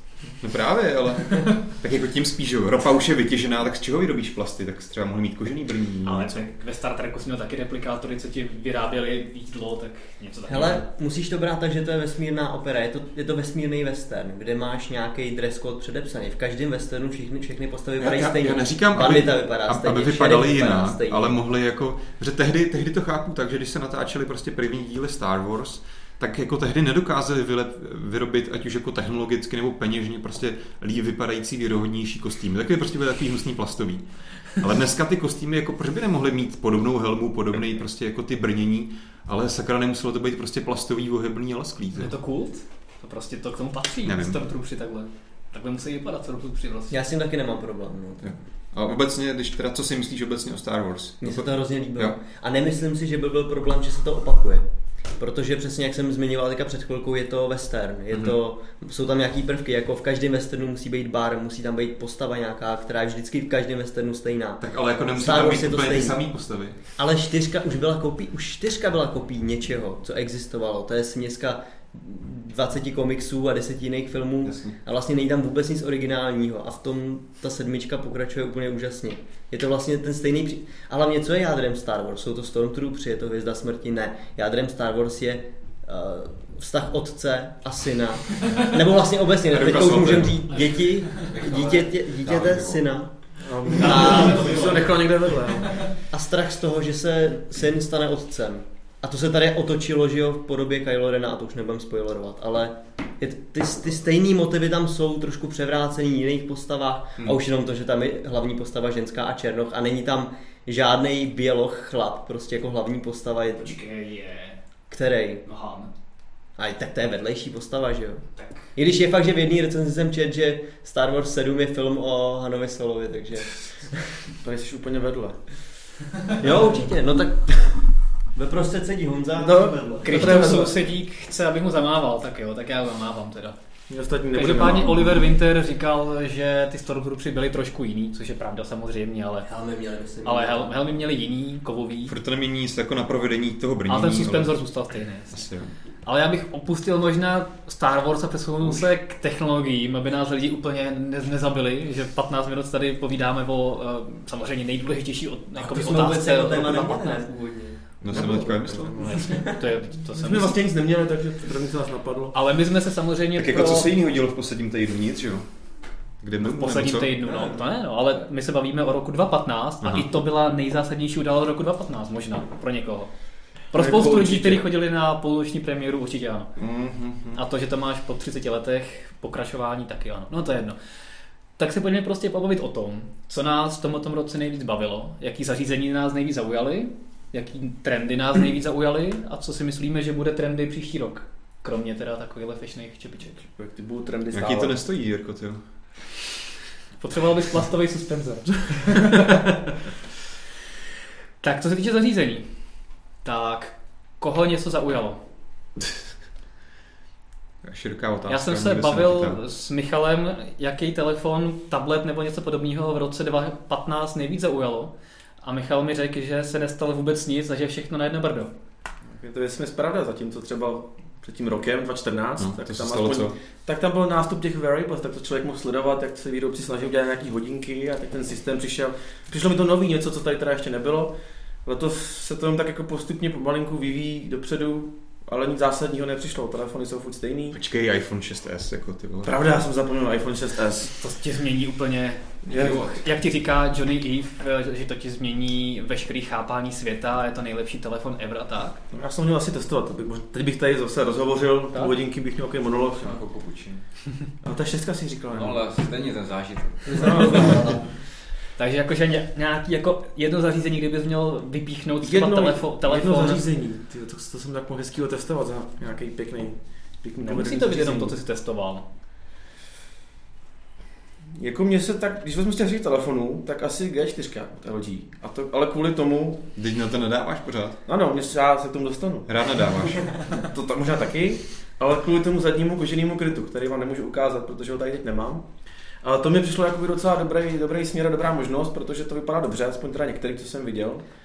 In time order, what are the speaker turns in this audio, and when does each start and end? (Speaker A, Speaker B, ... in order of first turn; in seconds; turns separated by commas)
Speaker A: 0.4-6.5, Speaker B: 6.0-10.8, Speaker C: 10.5-21.4, Speaker A: 18.0-34.0, Speaker A: 34.5-42.1, Speaker B: 41.9-47.0, Speaker A: 44.0-44.4, Speaker C: 46.9-48.4, Speaker A: 48.2-52.1, Speaker C: 51.2-54.6, Speaker C: 55.2-66.2, Speaker A: 64.6-66.8, Speaker C: 66.9-93.1, Speaker A: 74.4-74.8, Speaker A: 89.5-90.6, Speaker D: 91.2-92.5, Speaker A: 92.2-92.8, Speaker E: 93.4-95.9, Speaker B: 93.8-94.9, Speaker C: 93.8-94.8, Speaker B: 95.6-95.9, Speaker C: 96.1-113.7, Speaker B: 113.6-114.6, Speaker C: 114.9-115.4, Speaker B: 115.4-115.9, Speaker C: 116.5-124.2, Speaker B: 118.3-118.7, Speaker E: 124.4-125.4, Speaker C: 126.3-130.6, Speaker E: 129.4-130.8, Speaker B: 130.0-133.6, Speaker E: 133.9-135.0, Speaker B: 134.3-139.5, Speaker A: 134.5-135.0, Speaker C: 139.4-140.9, Speaker B: 140.2-142.1, Speaker A: 142.1-144.6, Speaker B: 143.9-145.4, Speaker A: 145.3-145.7, Speaker B: 146.0-157.3, Speaker C: 155.6-157.8, Speaker A: 158.0-159.2, Speaker E: 158.1-159.5, Speaker B: 159.0-160.6, Speaker E: 160.1-162.3, Speaker B: 162.3-163.9, Speaker A: 163.3-165.4, Speaker A: 166.2-167.2, Speaker B: 166.4-173.1, Speaker A: 169.8-170.1, Speaker B: 173.7-176.5, Speaker E: 173.8-174.6, Speaker A: 176.6-177.4, Speaker B: 177.3-180.8, Speaker B: 181.6-193.3, Speaker E: 193.3-194.8, Speaker A: 194.3-195.6, Speaker B: 197.0-199.7, Speaker B: 201.4-202.5, Speaker B: 203.2-205.2, Speaker A: 207.6-209.4, Speaker B: 208.3-218.5, Speaker E: 219.1-237.6, Speaker A: 222.4-223.3, Speaker A: 237.5-239.3, Speaker E: 239.2-240.9, Speaker B: 241.0-248.8, Speaker E: 242.5-242.9, Speaker D: 242.5-243.0, Speaker E: 248.9-253.2, Speaker D: 253.0-253.8, Speaker E: 254.4-255.6, Speaker D: 255.3-257.6, Speaker E: 256.9-257.5, Speaker C: 257.0-257.8, Speaker B: 258.6-263.4, Speaker E: 262.0-268.2, Speaker B: 267.2-268.9, Speaker E: 271.3-276.4, Speaker A: 276.6-277.8, Speaker E: 277.9-285.5, Speaker A: 279.3-280.2, Speaker E: 286.0-291.0